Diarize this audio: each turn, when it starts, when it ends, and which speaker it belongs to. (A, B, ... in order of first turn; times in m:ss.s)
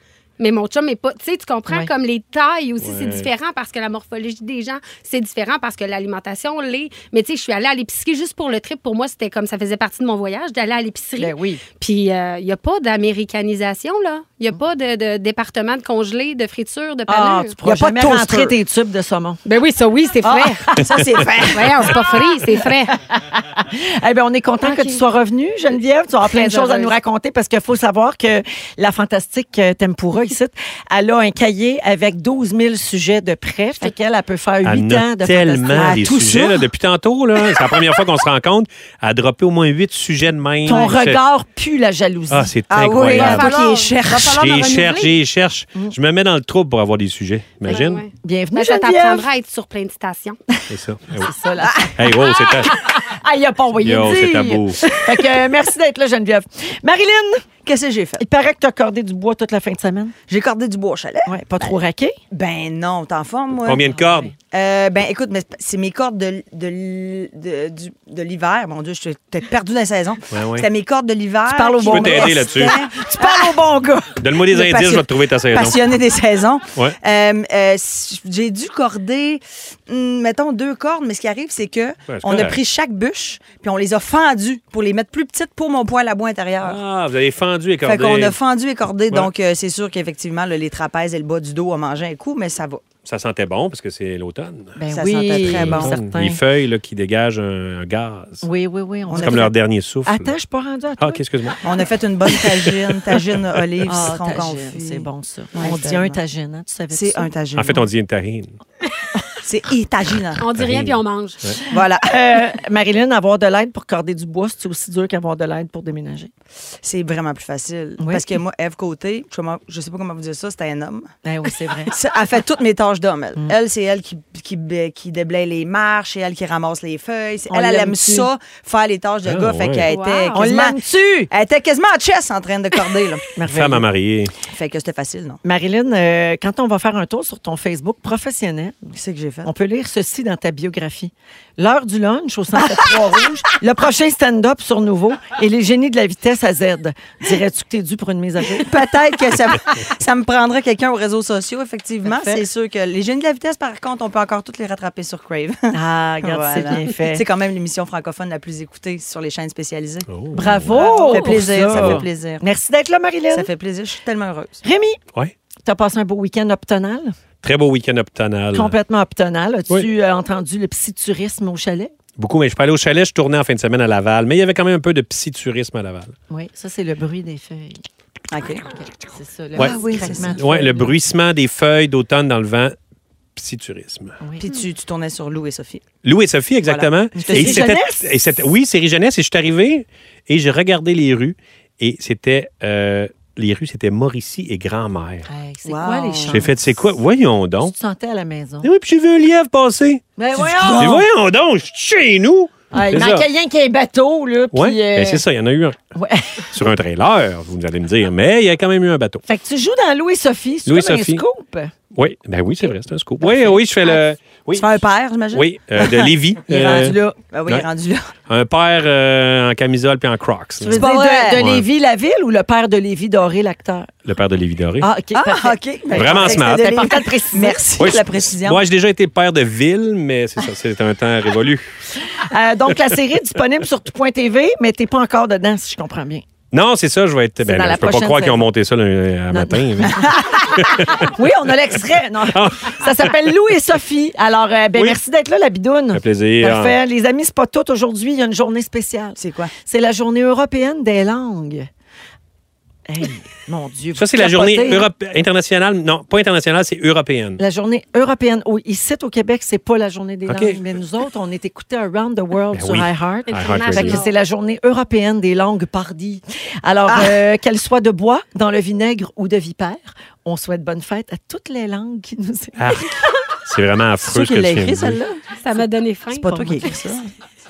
0:00.4-0:17.6 A
0:02.8-0:03.3 B
0:11.2-0:11.6 C
0:17.1-0:19.4 C
0:17.6-0:18.5 D
0:19.4-0:20.7 A
0:20.2-0:20.9 C
0:20.7-0:22.0 D
0:21.5-0:23.0 A
0:22.6-0:36.6 C
0:24.6-0:25.0 A
0:26.3-0:26.9 A
0:34.6-0:41.2 B
0:35.8-0:36.5 D
0:40.6-0:42.5 C
0:42.3-0:48.0 B
0:42.7-0:44.7 D
0:43.1-0:45.2 A
0:47.7-0:50.4 A
0:47.7-0:49.3 C
0:50.7-0:51.3 B
0:51.1-0:57.4 C
0:51.9-0:52.8 B
0:53.8-0:55.0 B
0:57.6-0:58.2 D
0:58.2-1:00.1 C
1:00.3-1:01.8 D
1:01.2-1:02.2 C
1:02.3-1:03.9 D
1:03.6-1:04.3 B
1:03.9-1:04.3 C
1:04.5-1:26.8 D
1:10.3-1:10.7 B
1:11.5-1:13.8 C
1:11.8-1:12.9 B
1:14.2-1:15.9 B
1:22.1-1:22.6 B
1:26.6-1:28.4 B
1:27.8-1:32.8 D
1:33.0-1:34.8 B
1:34.8-1:36.4 C
1:34.9-1:36.0 D
1:35.4-1:38.5 B
1:38.4-1:39.5 C
1:39.1-1:39.5 D
1:39.2-1:40.3 B
1:40.0-1:41.6 C
1:41.0-1:41.6 B
1:41.6-1:46.2 D
1:42.3-1:42.7 C
1:42.4-1:43.6 B
1:43.8-1:47.3 C
1:46.9-1:47.8 D
1:47.5-1:48.6 B
1:49.4-1:50.4 D
1:50.4-1:51.5 A
1:50.5-1:51.6 B
1:51.6-1:52.5 D
1:51.8-1:56.3 C
1:56.8-2:01.1 D
1:58.0-1:58.4 C
2:01.2-2:02.0 C
2:01.8-2:13.2 D
2:07.5-2:08.3 C
2:09.2-2:09.9 B
2:09.9-2:10.4 A
2:10.3-2:11.3 C
2:13.3-2:13.9 C
2:13.5-2:14.3 B
2:14.4-2:15.4 D
2:15.4-2:28.8 C
2:18.9-2:19.5 D
2:22.6-2:23.2 D
2:28.5-2:40.1 D
2:32.0-2:32.5 C
2:35.7-2:37.2 C
2:40.1-2:42.0 B
2:40.3-2:43.5 C
2:40.7-2:42.4 D
2:40.9-2:41.2 A
2:43.3-2:44.6 D
2:44.6-2:45.0 C
2:45.6-2:47.1 C
2:47.4-2:48.7 B
2:48.5-2:51.9 C
2:52.2-2:56.1 B
2:56.3-2:57.9 C
2:58.3-2:58.7 D
2:58.6-3:00.9 C
2:59.6-3:00.4 D
3:00.3-3:02.7 B
3:03.4-3:04.2 B
3:04.2-3:04.5 C
3:04.4-3:05.8 D
3:06.0-3:15.3 B
3:06.6-3:07.6 D
3:07.2-3:08.2 C
3:15.2-3:16.8 C
3:15.6-3:16.4 D
3:16.3-3:17.7 B
3:17.6-3:18.7 C
3:18.6-3:20.0 B
3:20.2-3:21.0 C
3:20.4-3:21.0 D
3:20.6-3:23.2 B
3:22.7-3:25.2 C
3:24.5-3:25.8 B
3:25.9-3:26.6 C
3:26.5-3:29.2 B
3:29.2-3:31.7 C
3:30.6-3:31.2 B
3:31.9-3:37.7 B
3:33.2-3:33.6 C
3:34.5-3:38.1 D
3:36.5-3:37.2 C
3:38.3-3:40.8 B
3:40.6-3:43.9 C
3:40.7-3:41.4 D
3:41.4-3:41.6 B
3:44.0-3:44.9 B
3:44.8-3:47.9 C
3:45.1-3:48.6 D
3:45.9-3:46.8 B
3:47.8-3:51.6 B
3:52.0-3:56.2 C
3:56.5-4:01.1 B
3:57.4-3:58.4 C
3:59.3-4:11.7 C
4:02.3-4:03.1 B
4:05.9-4:06.8 B
4:09.2-4:09.5 D
4:12.8-4:14.9 C
4:13.9-4:17.4 B
4:17.4-4:33.0 C
4:20.3-4:20.6 B
4:22.5-4:24.0 B
4:23.3-4:24.1 A
4:26.9-4:27.2 D
4:32.6-4:35.0 B
4:34.0-4:35.2 D
4:35.4-4:36.6 A
4:36.1-4:37.1 D
4:36.3-4:36.7 C